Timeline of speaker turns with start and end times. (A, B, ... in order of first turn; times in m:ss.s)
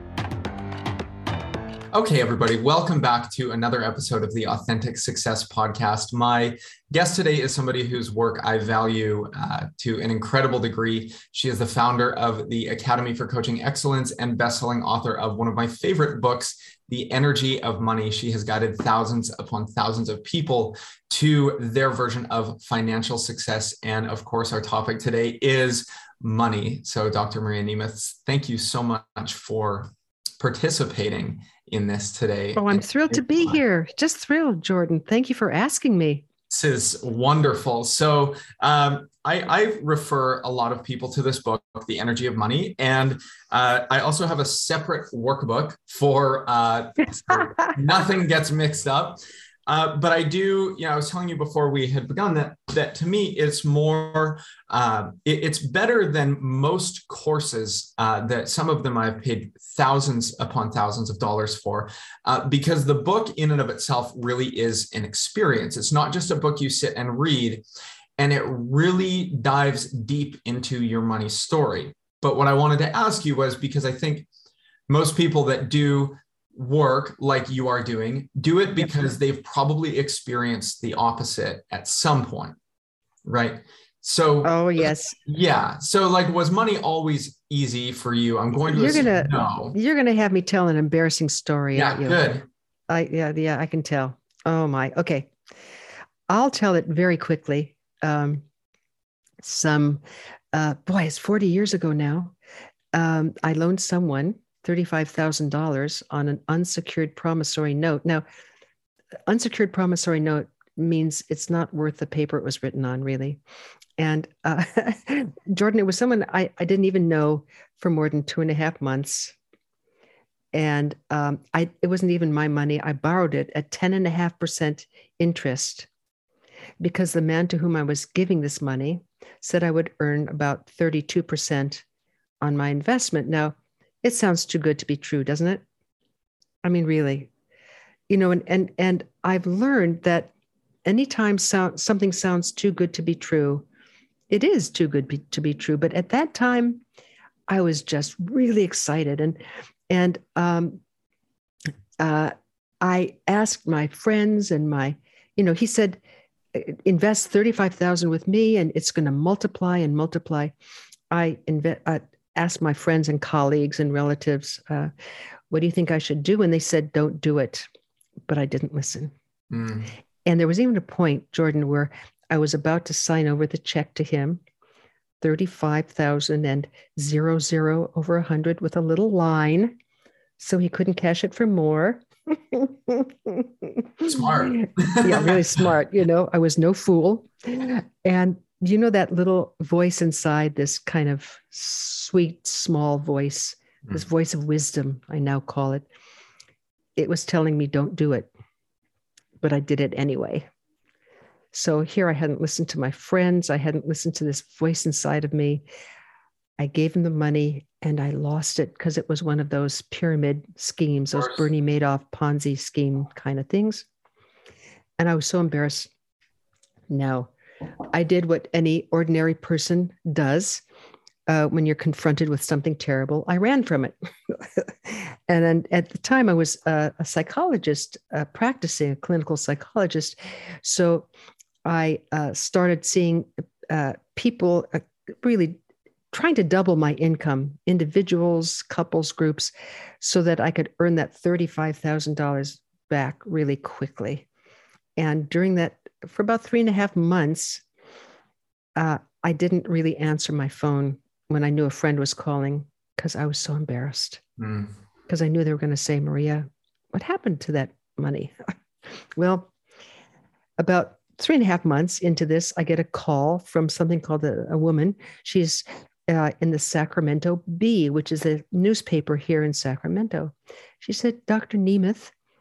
0:01.9-0:33.6 A
0:32.6-0:36.2 B
0:36.5-1:07.6 A
1:08.2-1:14.3 A
1:14.9-1:22.6 A
1:23.2-1:29.8 A
1:24.4-1:25.2 B
1:28.7-1:32.2 B
1:31.7-1:32.4 A
1:32.9-1:35.3 B
1:36.3-1:38.4 B
1:39.4-1:40.0 B
1:40.5-1:42.3 B
1:42.9-1:48.2 B
1:49.3-1:53.4 B
1:54.0-1:59.3 B
2:00.5-2:05.9 B
2:06.8-2:11.8 B
2:12.4-2:15.6 B
2:16.6-2:17.3 B
2:18.1-2:20.3 B
2:20.8-2:23.6 B
2:24.3-2:26.8 B
2:27.5-2:30.8 B
2:32.0-2:36.0 B
2:36.5-2:40.5 B
2:41.1-2:44.9 B
2:45.5-2:47.6 B
2:48.2-2:49.1 B
2:49.5-2:49.9 A
2:50.2-2:54.4 B
2:55.2-2:59.7 B
3:00.4-3:15.9 B
3:04.1-3:05.7 A
3:17.0-3:18.3 B
3:19.4-3:20.5 B
3:21.5-3:25.6 B
3:26.6-3:33.9 B
3:35.0-3:35.9 B
3:36.9-3:37.3 B
3:37.9-3:40.6 B
3:41.3-3:51.1 B
3:51.6-3:55.6 B
3:56.1-4:04.2 B
4:05.0-4:07.6 B
4:08.8-4:14.2 B
4:14.4-4:14.7 A
4:15.1-4:18.3 B
4:19.2-4:19.5 B
4:20.6-4:32.1 B